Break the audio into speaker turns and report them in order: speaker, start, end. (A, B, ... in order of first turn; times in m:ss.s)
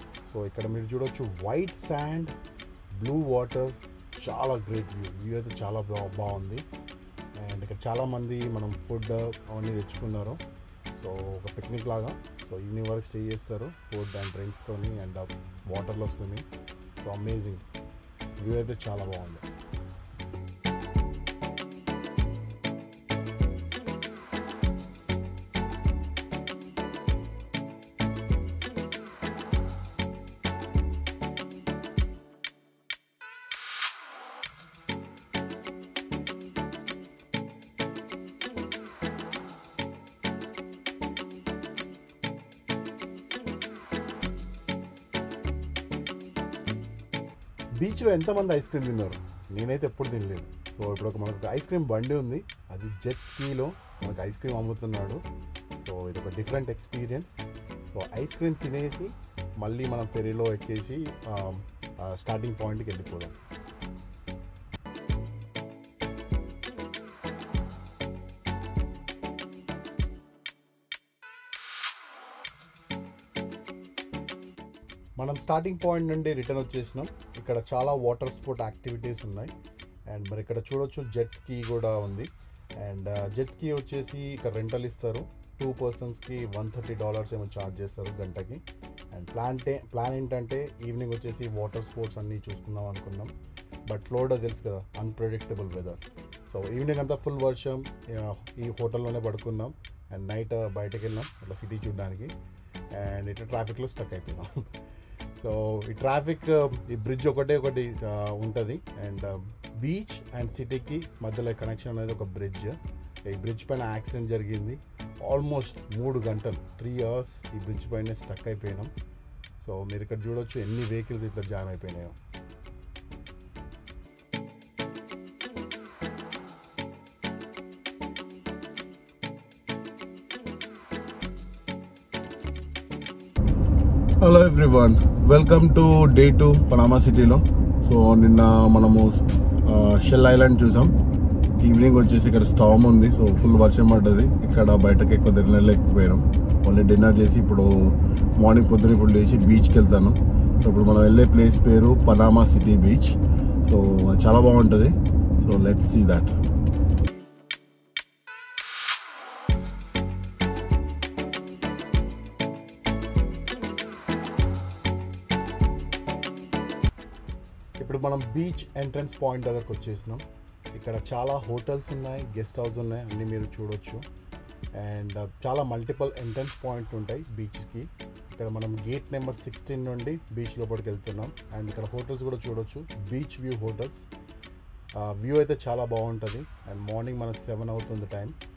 0:00.2-0:02.3 A
0:03.0-0:06.6 A
0:07.4-0:10.4 A
0:11.0-0:16.4 A
0:17.0-0:17.6 A
0:18.4-0:19.4 A
0:47.8-0:55.2 A
0:55.8-1:03.3 A
1:15.2-1:19.5 A
1:20.1-1:22.3 A
1:22.8-1:28.6 A
1:29.1-1:33.3 A
1:33.9-1:42.3 A
1:42.9-1:44.5 A
1:45.4-1:58.9 A
1:59.6-2:02.2 A
2:14.2-2:20.9 A
2:21.6-2:36.4 A
2:47.8-2:50.2 A
2:50.7-2:54.0 A
2:54.7-3:04.0 A
3:05.0-3:08.4 A